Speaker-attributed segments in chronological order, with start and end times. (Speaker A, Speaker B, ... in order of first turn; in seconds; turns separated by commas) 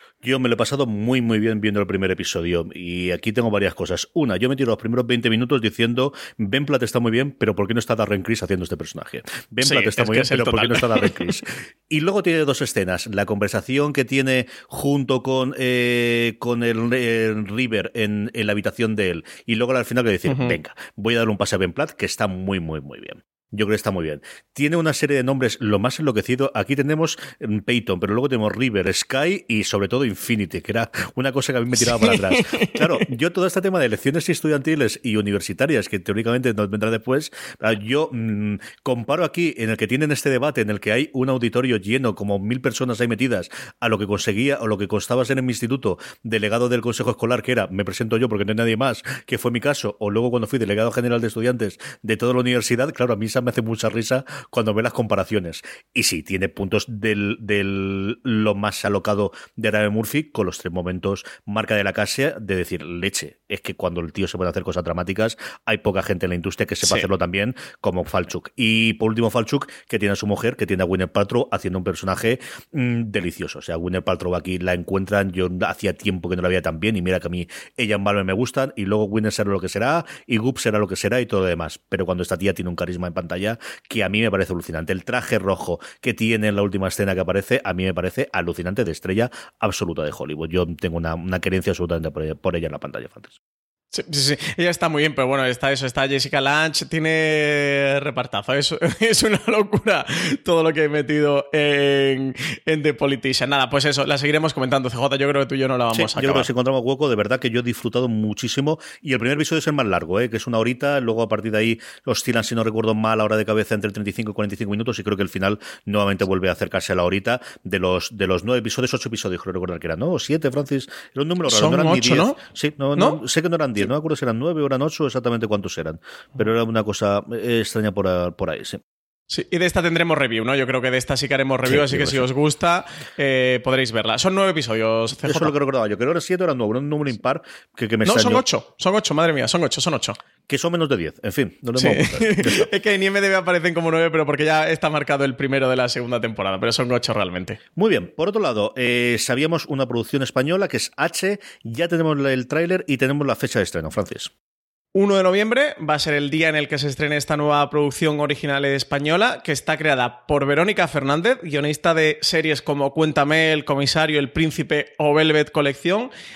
Speaker A: 0.2-93.3, Speaker B: 9.6-11.3, Speaker B: 20.2-20.6, Speaker B: 31.8-32.9, Speaker B: 93.9-106.5, Speaker A: 105.9-128.8, Speaker B: 121.5-122.4, Speaker B: 129.3-135.5, Speaker A: 131.6-132.3, Speaker A: 135.2-138.4, Speaker B: 138.1-140.2, Speaker A: 140.5-142.7, Speaker B: 141.8-147.6, Speaker A: 147.8-154.3, Speaker B: 154.9-166.1